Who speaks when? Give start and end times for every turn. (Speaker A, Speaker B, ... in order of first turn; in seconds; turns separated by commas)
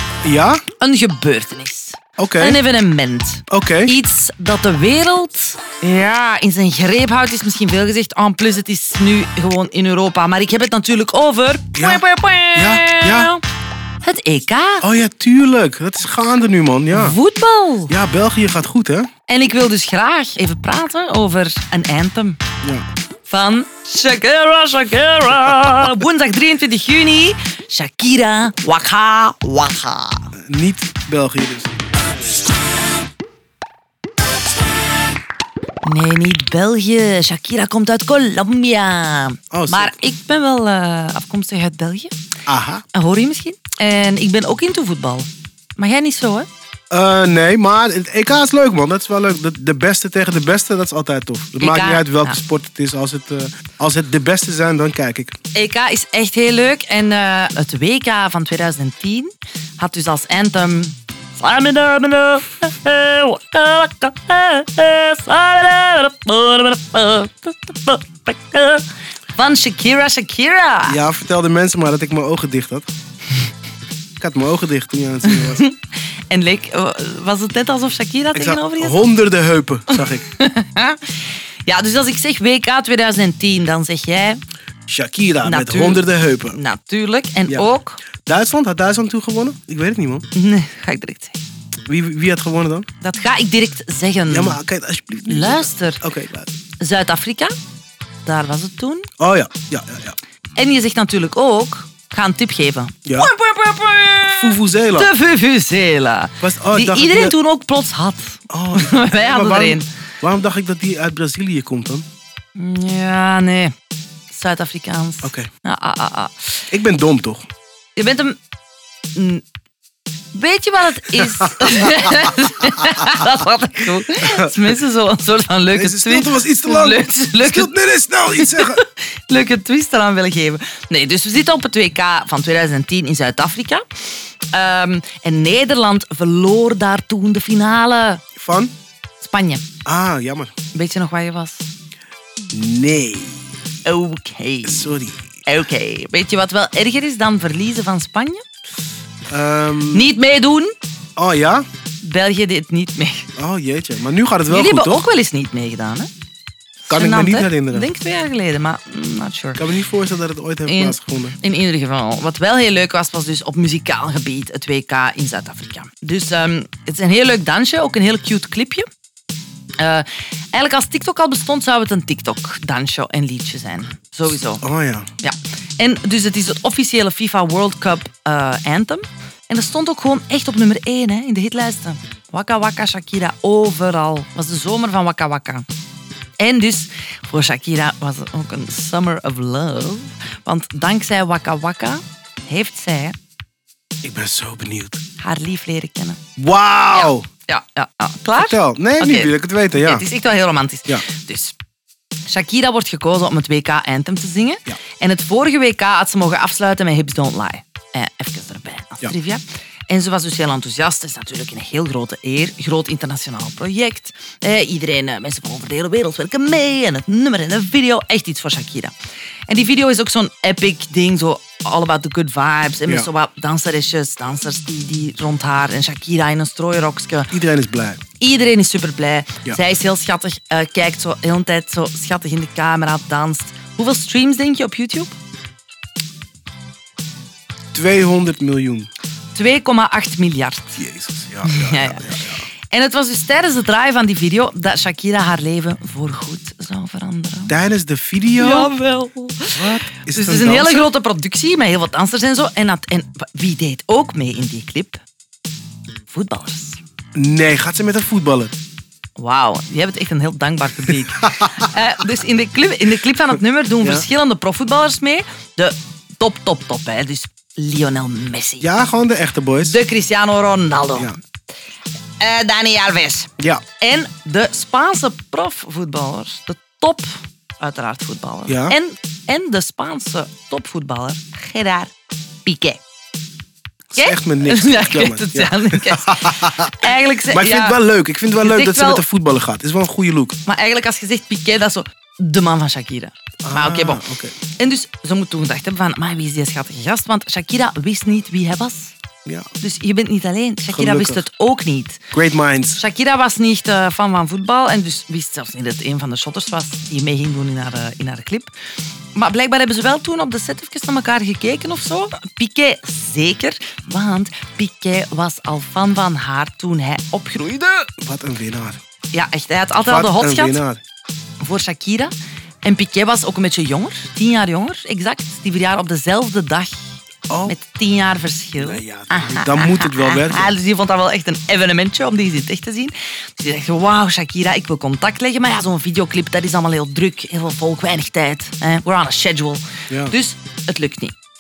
Speaker A: 0.2-0.6, Speaker B: 0.8-13.4, Speaker A: 2.2-2.6, Speaker A: 3.5-3.9, Speaker A: 11.8-13.3, Speaker B: 14.0-14.9, Speaker A: 14.8-17.2, Speaker B: 16.9-17.9, Speaker A: 17.9-19.1, Speaker B: 19.3-22.4, Speaker B: 23.3-30.3, Speaker A: 30.4-31.8, Speaker B: 35.8-42.1, Speaker A: 39.5-40.0, Speaker A: 42.5-42.8, Speaker B: 42.9-46.5, Speaker A: 46.9-55.4, Speaker B: 51.6-52.4, Speaker B: 55.5-71.0, Speaker A: 70.9-72.9, Speaker A: 74.2-75.6, Speaker B: 75.2-75.8, Speaker B: 76.3-79.0, Speaker A: 78.3-80.3, Speaker B: 79.9-84.4, Speaker A: 84.9-86.6, Speaker B: 85.4-88.0, Speaker A: 88.3-90.2, Speaker B: 90.3-91.4, Speaker A: 91.9-92.9, Speaker B: 93.0-94.6, Speaker A: 94.3-96.5, Speaker B: 95.3-96.0, Speaker B: 96.8-97.5, Speaker B: 98.2-99.1, Speaker A: 99.2-100.2, Speaker B: 100.6-109.9, Speaker A: 103.1-103.3, Speaker A: 104.2-105.1, Speaker A: 106.4-107.4, Speaker A: 108.5-112.0, Speaker B: 112.6-113.7, Speaker B: 114.3-116.7, Speaker A: 115.2-115.5, Speaker A: 116.7-117.5, Speaker B: 118.0-118.4, Speaker B: 119.2-119.4, Speaker B: 120.3-127.7, Speaker A: 121.5-121.9, Speaker A: 124.2-124.7, Speaker A: 125.7-128.8, Speaker B: 128.4-133.8, Speaker B: 134.5-138.2, Speaker A: 138.4-138.7, Speaker B: 139.2-139.6, Speaker A: 139.8-140.5, Speaker B: 140.7-141.7, Speaker A: 142.5-143.5, Speaker B: 143.8-144.9, Speaker A: 144.6-145.3, Speaker B: 145.5-148.4, Speaker A: 149.3-150.1, Speaker B: 149.9-150.7, Speaker A: 151.2-151.7, Speaker B: 152.0-153.3, Speaker A: 153.4-155.1, Speaker B: 154.5-156.1, Speaker B: 156.8-159.6, Speaker A: 156.9-157.9, Speaker A: 159.6-161.4, Speaker B: 160.7-168.9, Speaker B: 169.8-174.6, Speaker A: 174.6-175.1, Speaker B: 175.2-185.7, Speaker B: 186.4-193.2, Speaker A: 194.0-195.0, Speaker B: 195.2-196.2, Speaker A: 196.4-197.3, Speaker B: 196.9-201.6, Speaker A: 198.4-200.1, Speaker B: 202.3-218.9, Speaker B: 219.5-227.3, Speaker A: 227.3-228.0, Speaker B: 228.2-235.2, Speaker A: 237.7-238.9, Speaker B: 239.3-240.8, Speaker A: 240.8-242.4, Speaker B: 241.4-242.1, Speaker B: 242.7-247.5, Speaker A: 247.5-248.7, Speaker B: 248.4-255.0, Speaker A: 249.5-250.9, Speaker B: 256.1-256.8, Speaker A: 257.1-258.5, Speaker B: 259.2-268.7, Speaker A: 268.6-269.8, Speaker B: 269.6-271.1, Speaker B: 272.2-281.9, Speaker A: 278.5-278.8, Speaker B: 282.4-282.8, Speaker A: 283.9-290.4, Speaker B: 284.0-287.8, Speaker B: 288.4-289.1, Speaker B: 290.5-298.9, Speaker A: 293.4-294.4, Speaker B: 299.6-302.0, Speaker A: 300.7-301.2, Speaker A: 302.1-302.8, Speaker B: 302.8-308.5, Speaker B: 309.1-317.9, Speaker A: 318.0-318.8, Speaker B: 319.1-320.6, Speaker A: 319.9-320.8, Speaker B: 321.4-322.1, Speaker B: 322.6-326.9, Speaker A: 327.3-327.6, Speaker B: 327.5-341.1, Speaker A: 328.6-330.6, Speaker A: 339.9-340.2